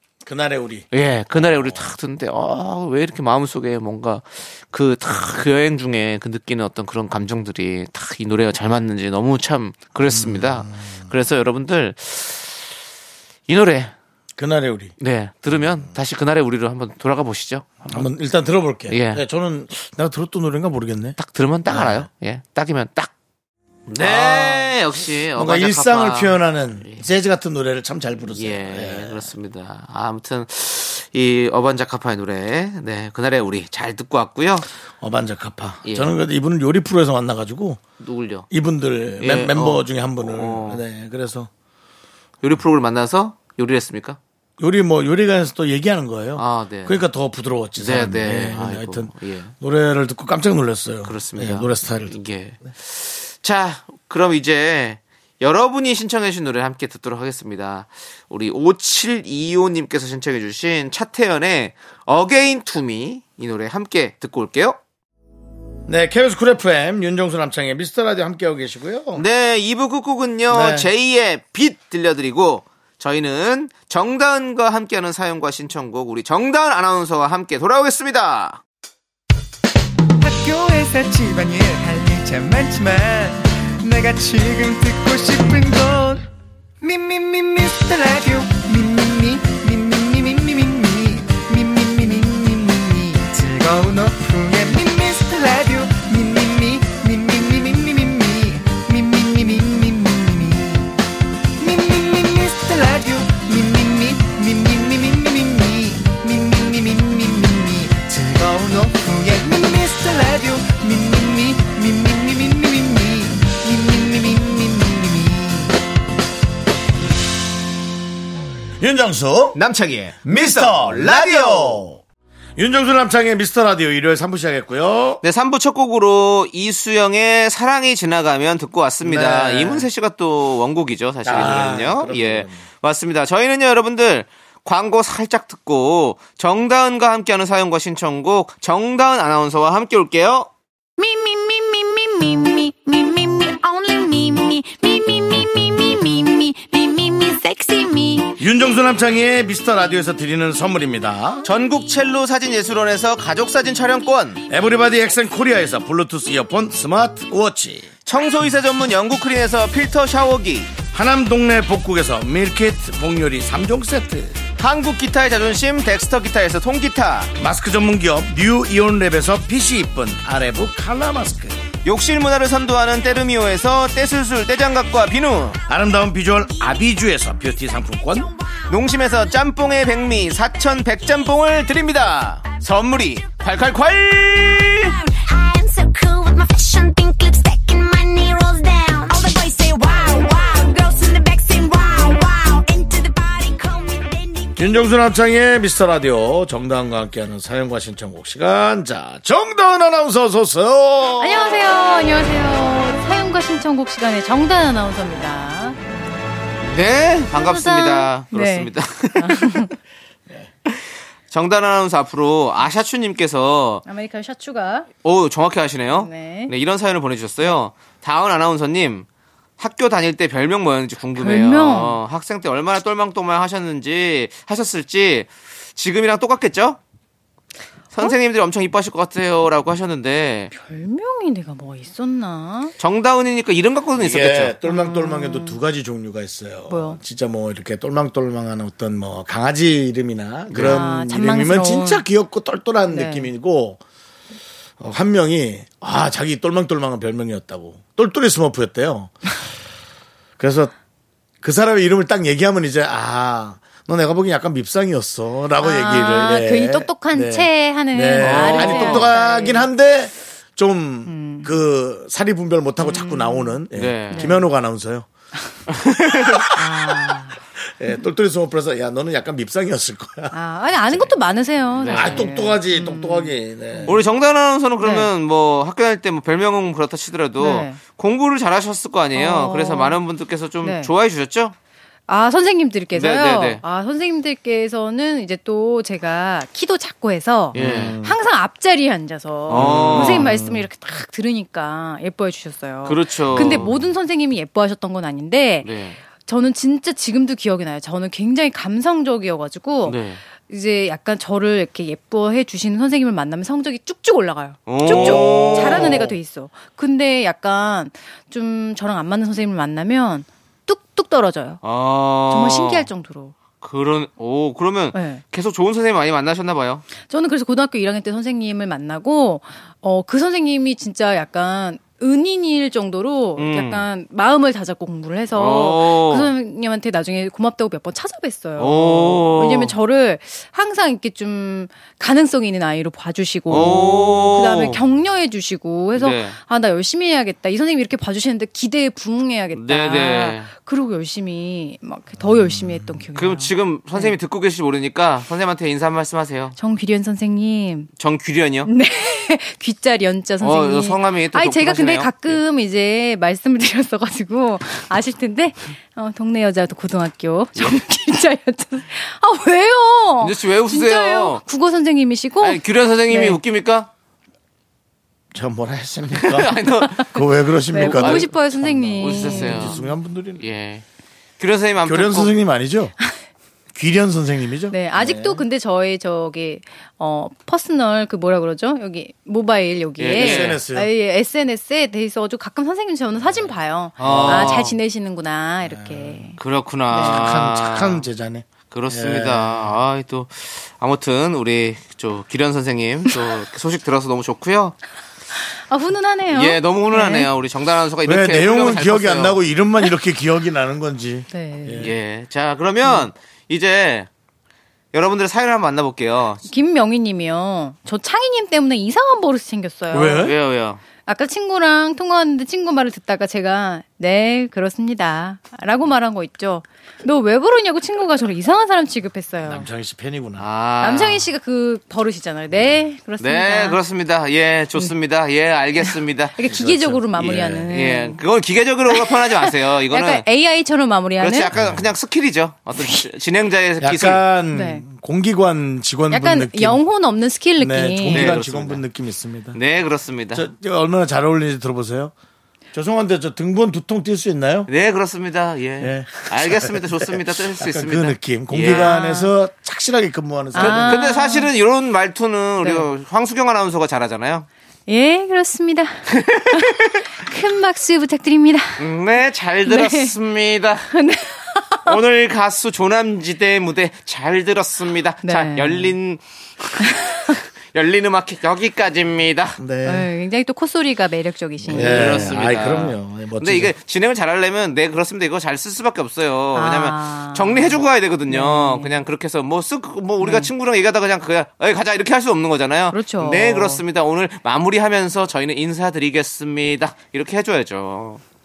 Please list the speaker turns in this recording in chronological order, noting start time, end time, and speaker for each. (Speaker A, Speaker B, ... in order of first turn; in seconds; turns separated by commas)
Speaker A: 0.2-1.9, Speaker B: 0.9-12.7, Speaker A: 10.1-11.1, Speaker B: 13.5-13.9, Speaker A: 14.4-14.9, Speaker B: 15.0-18.1, Speaker A: 15.5-15.9, Speaker A: 17.9-22.1, Speaker B: 18.9-19.2, Speaker B: 21.2-23.1, Speaker B: 23.9-27.1, Speaker A: 24.0-29.3, Speaker B: 28.3-34.7, Speaker A: 35.0-37.8, Speaker B: 35.8-36.1, Speaker B: 38.0-38.5, Speaker A: 38.5-41.5, Speaker B: 39.2-40.8, Speaker B: 42.4-44.2, Speaker A: 44.6-52.1, Speaker B: 46.4-47.0, Speaker B: 47.8-49.5, Speaker B: 51.0-64.8, Speaker A: 65.9-69.2, Speaker B: 69.1-78.6, Speaker A: 70.5-70.9, Speaker C: 80.2-86.2, Speaker C: 86.8-101.0, Speaker C: 101.6-115.8, Speaker A: 118.8-119.6, Speaker B: 119.5-121.8, Speaker A: 120.2-122.0, Speaker A: 122.6-125.2, Speaker B: 125.2-140.5, Speaker A: 129.0-129.9, Speaker A: 131.2-132.6, Speaker D: 141.0-148.4, Speaker A: 148.4-151.4, Speaker B: 151.4-154.4, Speaker A: 154.5-157.9, Speaker B: 158.1-160.7, Speaker A: 160.9-164.4, Speaker B: 164.6-167.3, Speaker A: 167.4-171.6, Speaker B: 171.8-175.6, Speaker A: 175.7-178.3, Speaker B: 178.7-184.9, Speaker D: 185.1-194.5, Speaker A: 194.6-201.7, Speaker E: 201.2-205.8, Speaker B: 206.6-209.6, Speaker E: 207.3-209.7, Speaker B: 210.7-213.8, Speaker E: 213.8-214.9, Speaker B: 215.0-219.1, Speaker E: 215.9-216.5, Speaker B: 219.6-226.8, Speaker E: 221.1-222.0, Speaker B: 227.9-230.5, Speaker E: 230.5-232.7, Speaker B: 232.8-234.6, Speaker A: 233.9-243.8, Speaker E: 234.7-235.6, Speaker E: 236.7-237.0, Speaker B: 240.5-240.8, Speaker E: 240.6-242.0, Speaker E: 242.9-243.3, Speaker A: 244.8-249.3, Speaker A: 250.4-250.7, Speaker A: 251.4-265.1, Speaker E: 255.6-259.7, Speaker B: 258.2-259.1, Speaker E: 261.1-261.5, Speaker E: 262.8-264.5, Speaker B: 263.7-264.3, Speaker B: 265.7-266.5, Speaker E: 266.5-267.4, Speaker A: 267.6-271.1, Speaker E: 270.3-273.9, Speaker B: 271.8-272.3, Speaker A: 271.9-274.0, Speaker B: 273.9-281.5, Speaker E: 274.8-275.1, Speaker E: 277.4-277.8, Speaker E: 279.1-280.0, Speaker E: 280.6-280.9, Speaker E: 282.1-311.6, Speaker B: 282.9-283.6, Speaker B: 287.5-288.0, Speaker A: 287.5-288.2, Speaker B: 289.5-290.3, Speaker A: 289.5-290.7, Speaker B: 292.8-293.7, Speaker A: 293.3-293.9, Speaker B: 295.6-296.0, Speaker B: 299.8-300.2, Speaker B: 304.7-306.1, Speaker A: 304.9-306.1, Speaker B: 311.6-312.9, Speaker E: 312.3-313.3, Speaker B: 313.6-316.8, Speaker E: 314.9-315.2, Speaker E: 317.1-344.1, Speaker B: 323.4-323.8, Speaker B: 325.3-326.3, Speaker B: 328.6-329.7, Speaker B: 333.5-334.8, Speaker A: 333.5-333.8, Speaker B: 335.9-336.4, Speaker B: 339.5-340.5, Speaker A: 342.2-343.0, Speaker B: 343.1-346.5, Speaker E: 346.6-347.9, Speaker B: 348.0-348.7, Speaker E: 348.6-363.4, Speaker B: 350.4-352.4, Speaker B: 360.2-361.4, Speaker B: 362.4-363.9, Speaker A: 365.3-370.4, Speaker B: 366.1-367.1, Speaker E: 367.7-369.9, Speaker B: 367.7-368.3, Speaker B: 369.0-369.8, Speaker B: 370.4-370.8, Speaker B: 371.4-372.3, Speaker A: 371.8-372.9, Speaker A: 373.7-375.4, Speaker E: 374.7-386.4, Speaker B: 380.0-380.6, Speaker A: 380.1-380.9, Speaker A: 383.2-384.7, Speaker B: 384.0-384.7, Speaker A: 385.6-386.3, Speaker B: 386.4-388.1, Speaker E: 386.9-387.3, Speaker A: 386.9-389.7, Speaker B: 388.7-394.8, Speaker E: 395.5-397.3, Speaker B: 396.3-399.4, Speaker A: 398.0-401.9, Speaker E: 401.3-401.9, Speaker B: 401.8-404.1, Speaker B: 404.9-406.4, Speaker E: 406.4-410.3, Speaker A: 409.9-410.3, Speaker B: 410.1-410.8, Speaker E: 411.0-419.7, Speaker A: 419.4-420.4, Speaker B: 420.4-421.3, Speaker E: 420.8-423.8, Speaker B: 423.2-426.4, Speaker E: 426.4-428.2, Speaker A: 426.4-427.7, Speaker B: 427.2-430.2, Speaker E: 428.9-431.5, Speaker B: 431.2-434.2, Speaker A: 431.5-431.9, Speaker E: 432.8-433.0, Speaker A: 433.8-436.8, Speaker E: 434.5-434.9, Speaker E: 436.1-438.4, Speaker A: 437.6-439.6, Speaker B: 438.1-438.8, Speaker B: 439.5-440.5, Speaker A: 440.3-442.1, Speaker A: 442.7-444.7, Speaker B: 444.7-448.9, Speaker A: 445.8-451.1, Speaker E: 448.7-449.3, Speaker E: 450.5-451.5, Speaker B: 450.5-454.5, Speaker E: 452.6-452.9, Speaker E: 454.9-458.8, Speaker B: 456.1-457.0, Speaker B: 458.8-460.9, Speaker E: 459.6-460.1, Speaker E: 460.9-462.0, Speaker B: 461.8-469.6, Speaker E: 465.2-465.9, Speaker E: 466.9-467.2, Speaker A: 469.6-470.1, Speaker E: 469.8-472.3, Speaker A: 471.6-473.7, Speaker B: 471.7-488.2, Speaker E: 476.5-478.9, Speaker E: 480.2-480.5, Speaker E: 482.9-483.8